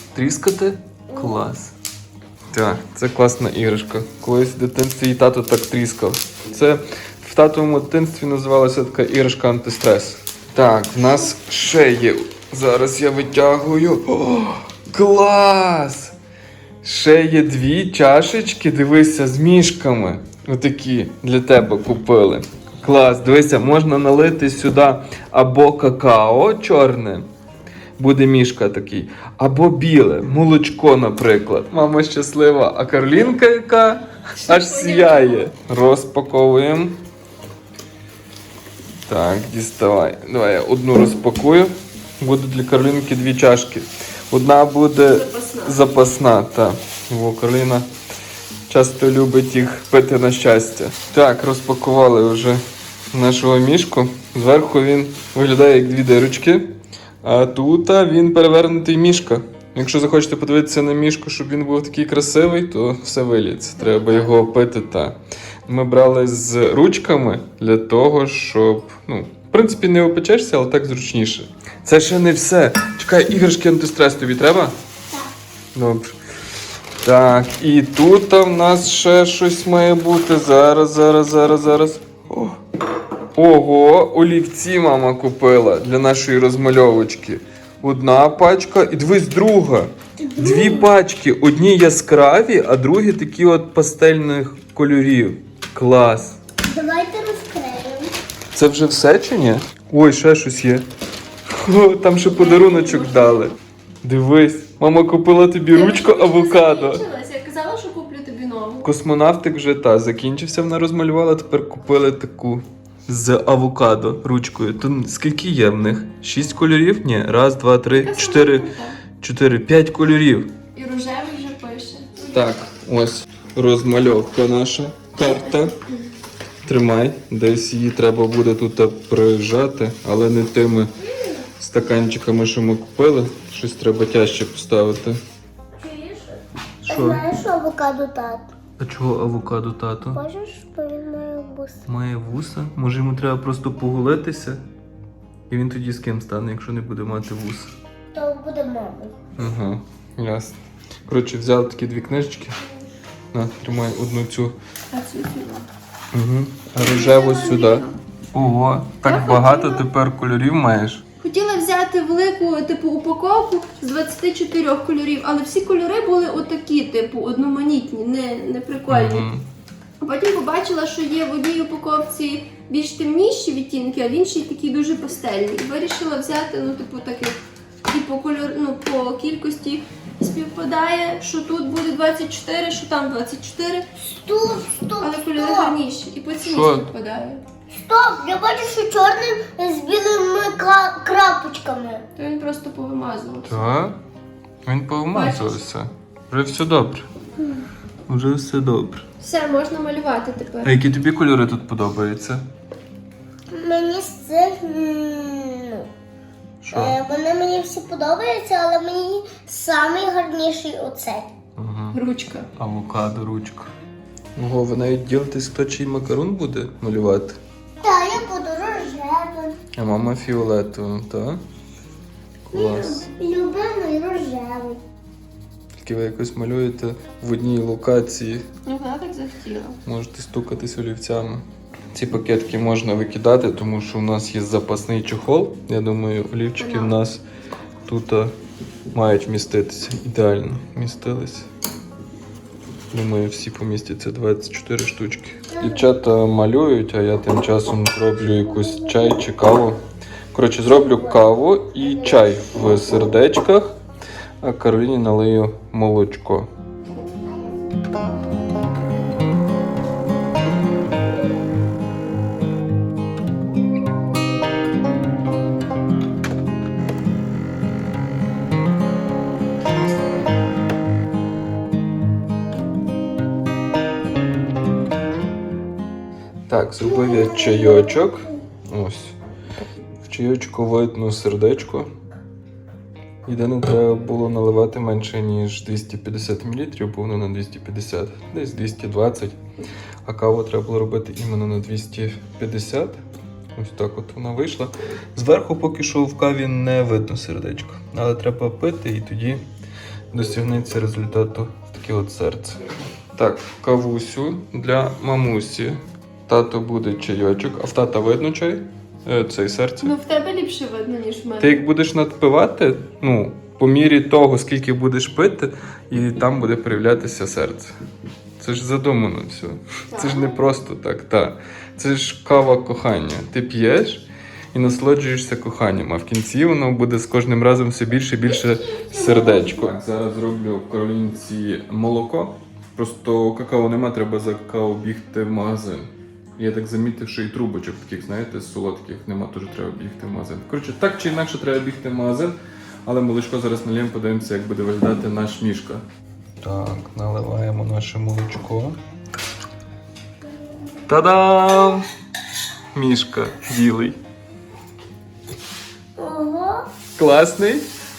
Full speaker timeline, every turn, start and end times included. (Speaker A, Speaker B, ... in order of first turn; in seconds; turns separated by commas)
Speaker A: 0.1-1.8, Speaker B: 1.1-1.4, Speaker A: 2.5-16.1, Speaker A: 16.8-27.3, Speaker A: 28.0-37.0, Speaker C: 34.4-35.5, Speaker A: 39.1-47.9, Speaker C: 45.0-45.8, Speaker A: 48.7-52.6, Speaker A: 53.1-74.7, Speaker C: 63.8-64.5, Speaker A: 75.7-76.1, Speaker A: 77.0-82.6, Speaker A: 83.3-96.4, Speaker B: 90.2-90.9, Speaker B: 96.7-98.1, Speaker A: 98.5-100.9, Speaker A: 101.5-107.0, Speaker C: 102.3-103.5, Speaker C: 105.7-108.9, Speaker A: 108.8-120.5, Speaker C: 118.0-119.0, Speaker C: 120.7-122.5, Speaker A: 122.3-125.8, Speaker C: 125.3-125.8, Speaker A: 126.6-130.9, Speaker A: 131.6-135.2, Speaker B: 135.8-138.5, Speaker A: 136.8-137.2, Speaker A: 138.8-140.2, Speaker B: 140.1-141.8, Speaker A: 141.9-144.6, Speaker A: 145.5-147.7, Speaker B: 148.1-149.2, Speaker A: 149.4-152.6, Speaker A: 153.3-154.6, Speaker C: 154.9-155.7, Speaker A: 156.1-161.0, Speaker C: 156.8-158.0, Speaker C: 159.0-159.9, Speaker C: 161.2-169.3, Speaker A: 168.9-169.5, Speaker C: 170.0-183.9, Speaker B: 184.2-185.8, Speaker C: 185.0-187.4, Speaker A: 186.4-186.9, Speaker B: 187.7-192.1, Speaker C: 192.2-193.5, Speaker A: 193.4-194.0, Speaker A: 194.7-197.1, Speaker C: 195.1-195.6, Speaker A: 198.1-199.1, Speaker C: 199.2-200.7, Speaker A: 200.6-202.4, Speaker B: 203.5-205.8, Speaker A: 206.6-207.0, Speaker B: 206.7-211.3, Speaker A: 211.6-212.0, Speaker C: 211.9-212.5, Speaker A: 212.6-213.7, Speaker A: 214.4-217.4, Speaker B: 217.8-219.6, Speaker A: 219.8-221.4, Speaker A: 222.5-223.0, Speaker C: 222.5-223.0, Speaker B: 222.6-224.8, Speaker A: 225.8-228.5, Speaker C: 228.7-229.8, Speaker A: 229.8-237.2, Speaker C: 236.6-237.0, Speaker A: 237.9-238.3, Speaker A: 238.9-241.5, Speaker A: 242.9-249.8, Speaker A: 250.3-253.7, Speaker A: 254.4-256.5, Speaker A: 276.5-279.2, Speaker B: 276.9-278.3, Speaker A: 280.0-281.9, Speaker A: 283.2-289.4, Speaker A: 290.1-293.0, Speaker A: 293.5-299.4, Speaker A: 300.1-302.6, Speaker A: 303.2-309.9, Speaker C: 309.8-311.6, Speaker A: 311.4-317.8, Speaker A: 318.4-345.8, Speaker C: 319.9-320.4, Speaker B: 328.6-329.7, Speaker A: 346.4-348.8, Speaker A: 350.9-351.9, Speaker A: 352.7-354.0, Speaker B: 356.0-356.7, Speaker A: 357.0-357.7